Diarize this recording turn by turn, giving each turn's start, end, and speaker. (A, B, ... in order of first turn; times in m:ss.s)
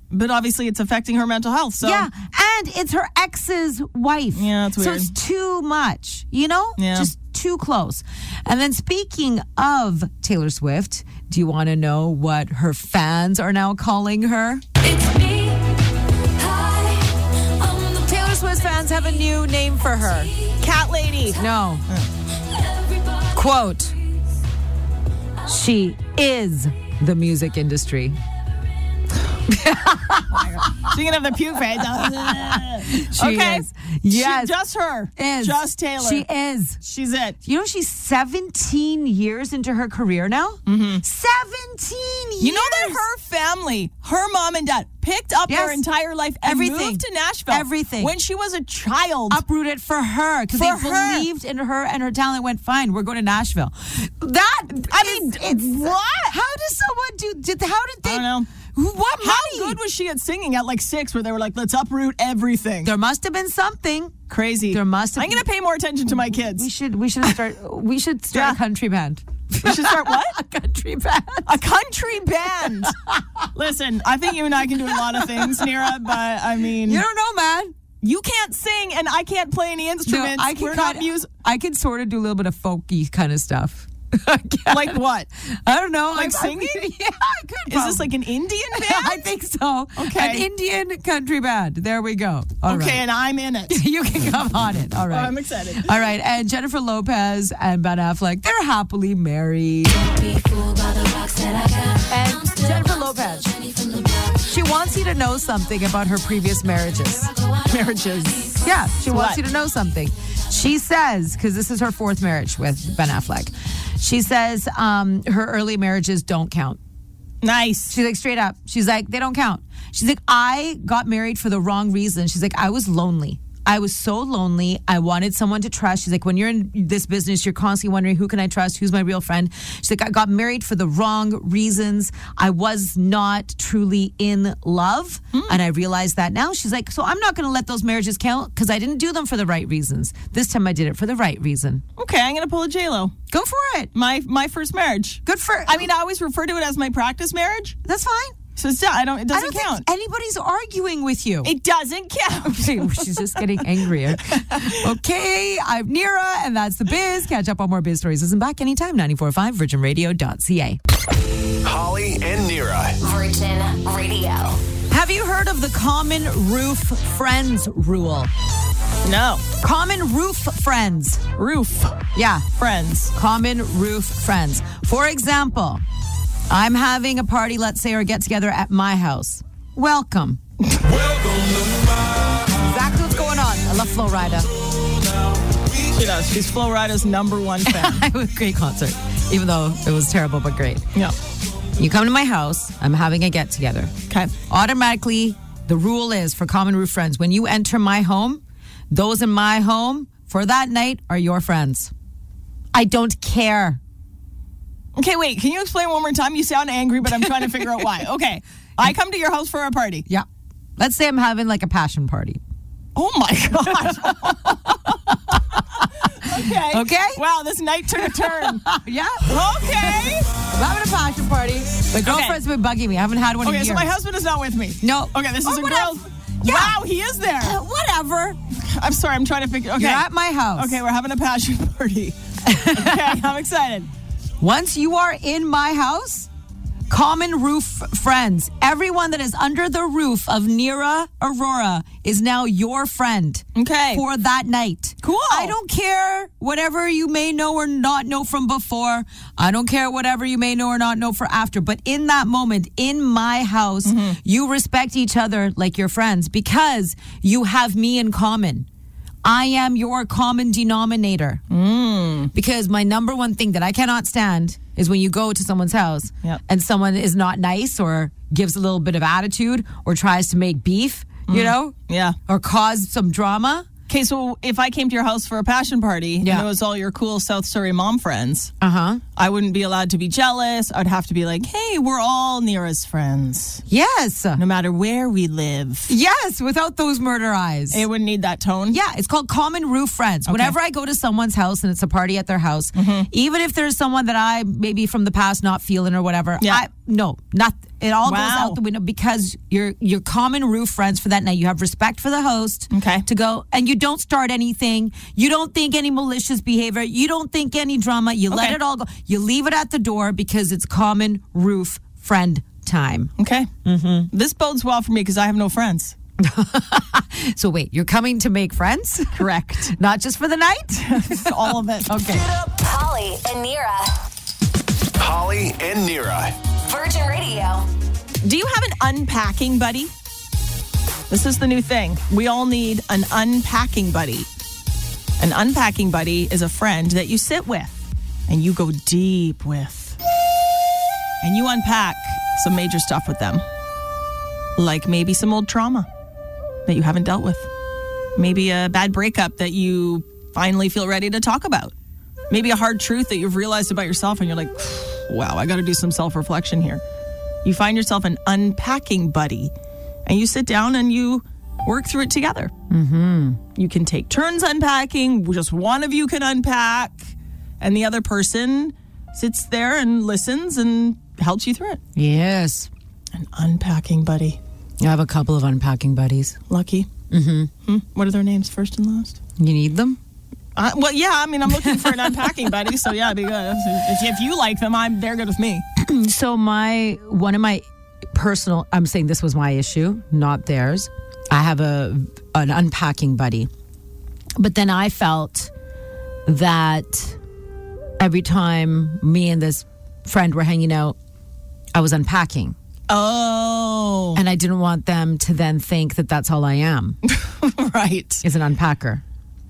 0:00.1-0:02.1 A
0:01.8-0:14.7 B
0:04.3-0:05.1 A
0:06.8-0:07.1 A
0:14.8-0:15.7 C
0:16.4-0:18.5 C
0:18.0-0:20.3 B
0:20.6-0:22.0 A
0:21.3-0:21.8 B
0:22.6-0:23.3 C
0:23.3-0:23.9 B
0:25.4-0:28.2 B
0:29.5-0:30.9 B
0:30.3-0:36.2 A
0:31.8-0:34.5 B
0:35.2-0:36.8 B
0:36.8-0:37.4 A
0:37.4-0:43.0 B
0:40.6-0:41.0 A
0:42.4-0:49.4 A
0:45.5-0:45.8 B
0:46.4-0:48.1 B
0:49.3-0:59.8 B
0:50.5-0:51.3 A
0:54.7-0:56.3 A
0:58.0-0:58.5 A
0:59.2-1:02.9 A
1:02.8-1:04.2 B
1:04.3-1:06.7 A
1:04.7-1:05.4 B
1:06.2-1:11.6 B
1:08.3-1:08.6 A
1:09.6-1:10.4 A
1:11.4-1:12.9 A
1:12.8-1:13.4 B
1:13.5-1:17.0 A
1:14.8-1:15.9 B
1:16.8-1:17.7 B
1:18.0-1:21.3 A
1:20.0-1:28.1 B
1:24.7-1:25.3 A
1:26.1-1:26.8 A
1:27.7-1:29.2 A
1:28.7-1:33.0 B
1:30.0-1:30.4 A
1:32.6-1:33.8 A
1:33.7-1:40.0 B
1:35.1-1:35.9 A
1:39.9-1:44.5 C
1:42.1-1:43.5 B
1:44.4-1:47.3 B
1:47.2-1:48.6 C
1:47.6-1:48.5 A
1:48.6-1:56.8 B
1:49.1-1:49.4 A
1:57.4-1:58.0 A
1:57.9-2:21.8 B
2:15.3-2:15.6 A
2:22.0-2:23.1 A
2:23.3-2:23.9 B
2:23.9-2:27.8 A
2:25.2-2:25.9 B
2:27.8-2:28.4 B
2:28.6-2:29.8 A
2:29.3-2:31.5 B
2:31.4-2:33.6 A
2:32.4-2:40.8 B
2:34.4-2:34.8 A
2:41.6-2:43.0 D
2:43.0-2:44.6 E
2:44.9-2:48.3 B
2:49.0-2:49.4 A
2:49.6-2:51.2 B
2:51.4-2:52.0 A
2:52.1-2:52.4 B
2:52.5-2:53.1 A
2:53.1-2:55.8 B
2:56.5-3:00.4 B
3:02.5-3:04.5 B
3:05.8-3:08.0 A
3:07.6-3:10.8 B
3:11.8-3:21.9 B
3:22.7-3:23.8 B
3:25.0-3:30.0 A
3:27.2-3:27.6 B
3:30.8-3:32.4 B
3:32.9-3:34.9 A
3:33.7-3:37.2 B
3:36.0-3:38.7 A
3:38.0-3:43.9 B
3:39.2-3:40.3 A
3:42.0-3:42.4 A
3:43.4-3:47.6 A
3:44.8-3:46.8 B
3:47.4-3:48.4 B
3:48.6-3:53.9 A
3:49.8-3:50.8 B
3:52.4-3:53.2 B
3:54.4-3:56.3 B
3:56.9-4:18.7 B
4:03.6-4:04.0 A
4:05.0-4:05.5 A
4:13.8-4:14.2 A
4:19.2-4:21.4 B
4:21.5-4:22.3 A
4:22.3-4:33.7 B
4:31.3-4:32.2 A
4:33.9-4:38.5 A
4:36.2-4:36.5 B
4:38.6-4:39.0 B
4:39.2-4:43.6 A
4:43.7-4:44.4 B
4:44.4-4:45.9 A
4:45.9-4:47.8 B
4:47.7-4:48.8 A
4:48.7-5:13.1 B
4:50.2-4:50.6 A
4:52.7-4:53.1 A
4:58.0-4:58.6 A
5:02.7-5:03.0 A
5:08.3-5:08.6 A
5:13.2-5:13.5 A
5:13.6-5:14.1 B
5:14.1-5:16.0 A
5:16.2-5:22.3 B
5:19.1-5:19.7 A
5:20.8-5:22.2 A
5:22.2-5:23.9 E
5:25.0-5:26.4 D
5:26.6-5:27.7 E
5:28.2-5:29.9 A
5:31.1-5:34.3 A
5:35.2-5:40.0 A
5:41.2-5:43.4 A
5:44.6-5:45.9 A
5:46.7-5:47.5 A
5:48.2-5:51.7 A
5:52.3-5:56.8 A
5:57.4-5:59.5 A
6:00.0-6:02.5 A
6:02.7-6:03.4 B
6:03.6-6:11.8 A
6:12.0-6:12.7 B
6:13.1-6:14.4 A
6:14.8-6:16.4 B
6:16.5-6:16.9 A
6:17.1-6:17.5 B
6:17.6-6:19.2 A
6:19.4-6:20.0 B
6:20.6-6:25.6 A
6:21.5-6:22.3 B
6:25.8-6:33.5 B
6:34.4-6:35.5 B
6:36.2-6:37.2 B
6:38.0-6:41.0 B
6:41.7-6:42.6 B
6:42.9-6:44.2 A
6:44.1-6:47.0 B
6:47.0-6:48.2 A
6:48.2-6:49.0 B